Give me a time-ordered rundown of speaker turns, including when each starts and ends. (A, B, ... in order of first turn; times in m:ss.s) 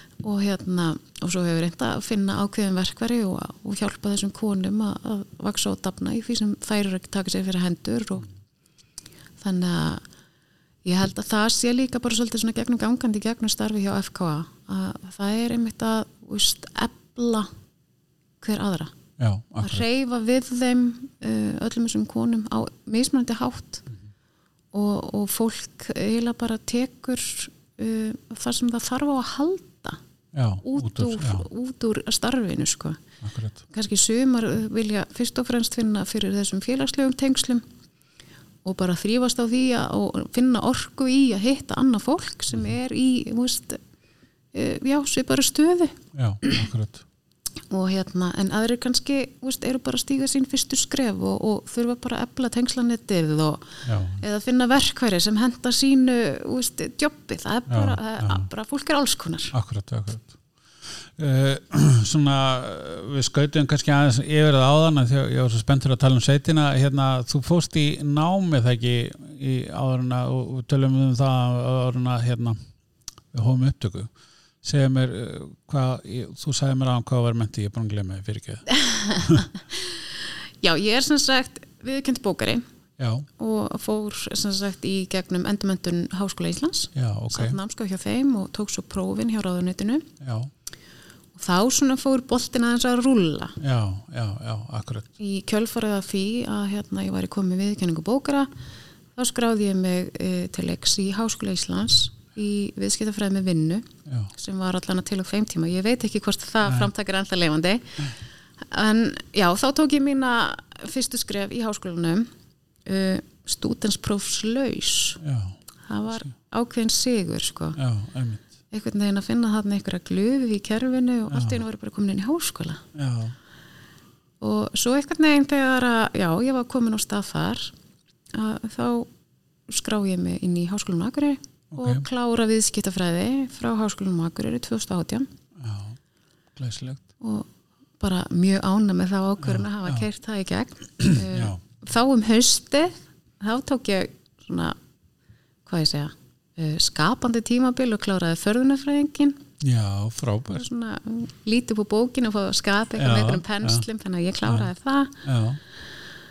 0:00.2-0:08.3 A
0:09.4-0:10.0 A
0:10.8-0:17.5 A
0:18.4-0:18.9 A
0:19.2-0:19.8 B
0:19.6-0:23.9 A
0:24.7-0:30.0 A
0:30.3-0:31.5 B
0:30.6-0:33.0 A
0:33.2-0:33.6 B
0:33.7-0:37.6 A
0:38.6-0:43.8 A
0:44.5-0:46.6 A
0:46.1-0:47.0 B
0:47.7-0:59.5 A
0:53.8-0:54.2 B
0:57.7-0:58.5 B
0:59.5-1:00.4 B
1:01.2-1:12.6 B
1:13.3-1:14.1 B
1:14.6-1:19.5 B
1:18.7-1:20.1 A
1:20.6-1:22.6 A
1:23.0-1:23.3 B
1:23.4-1:30.1 A
1:26.9-1:27.6 B
1:30.2-1:30.5 B
1:31.3-1:33.6 A
1:33.6-1:35.1 B
1:35.2-1:38.5 A
1:39.2-1:48.1 A
1:44.0-1:44.3 B
1:46.6-1:46.9 B
1:48.7-1:52.3 A
1:52.8-1:55.2 A
1:55.2-1:55.6 B
1:55.9-1:57.8 A
1:57.8-1:58.5 B
1:58.7-2:02.8 A
2:01.3-2:01.6 B
2:02.9-2:03.3 B
2:04.4-2:07.7 A
2:08.3-2:09.1 A
2:09.7-2:15.3 A
2:11.7-2:12.0 B
2:15.6-2:16.0 B
2:16.6-2:17.0 B
2:17.2-2:17.5 A
2:18.0-2:24.8 A
2:19.4-2:20.0 B
2:21.0-2:21.6 B
2:25.6-2:29.4 A
2:29.6-2:30.6 B
2:30.5-2:35.2 A
2:33.0-2:33.8 B
2:35.2-2:35.6 B